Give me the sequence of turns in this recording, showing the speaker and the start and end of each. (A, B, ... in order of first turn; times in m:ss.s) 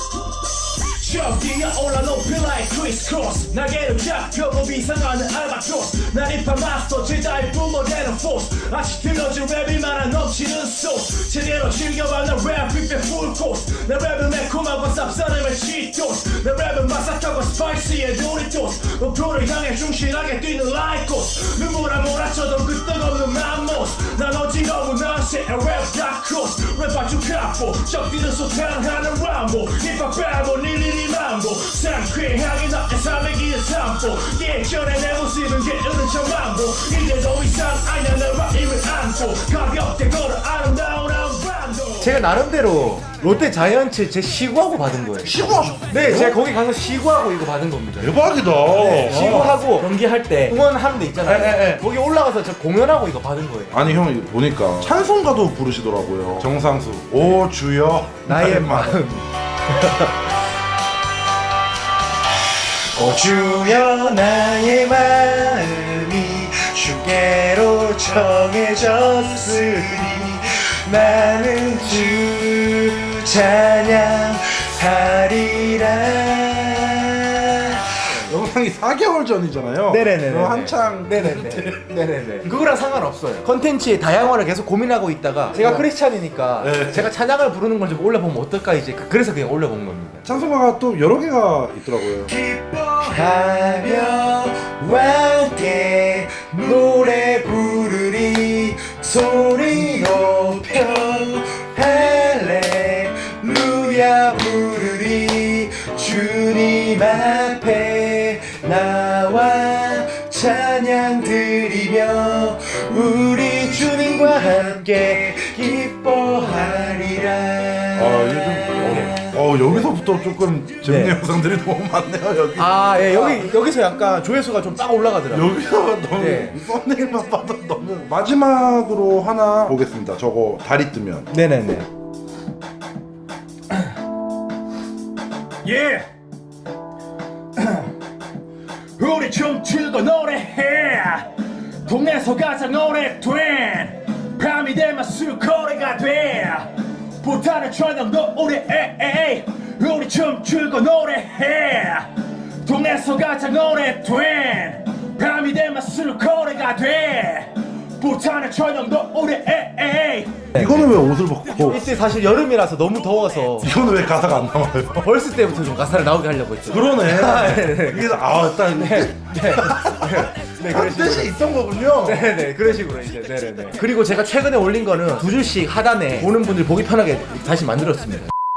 0:00.7-0:42.2 A
0:03.4-0:05.8 B
0:06.4-0:07.5 B
0:14.8-0:15.3 B
0:42.0-0:53.9 B
0:45.2-0:46.4 C
0:48.0-0:49.6 C
0:51.2-0:51.8 C
0:53.7-0:59.0 C
0:58.2-1:00.3 B
1:02.8-1:18.3 B
1:18.2-1:21.9 C
1:19.9-1:30.3 B
1:26.6-1:27.1 C
1:30.2-1:32.3 C
1:32.3-1:59.8 B
1:57.9-2:03.5 C
2:00.8-2:01.2 B
2:02.6-2:05.6 B
2:05.3-2:11.3 C
2:06.2-2:06.6 B
2:11.3-2:11.9 B
2:15.6-2:16.0 A
2:17.6-2:17.9 A
2:19.0-2:21.3 A
2:19.1-2:20.0 B
2:21.8-2:40.5 A
2:40.5-2:40.9 B
2:40.5-2:41.9 C
2:41.7-2:43.7 B
2:43.6-2:45.1 C
2:45.0-2:51.4 B
2:46.7-2:52.3 C
2:52.0-2:58.3 B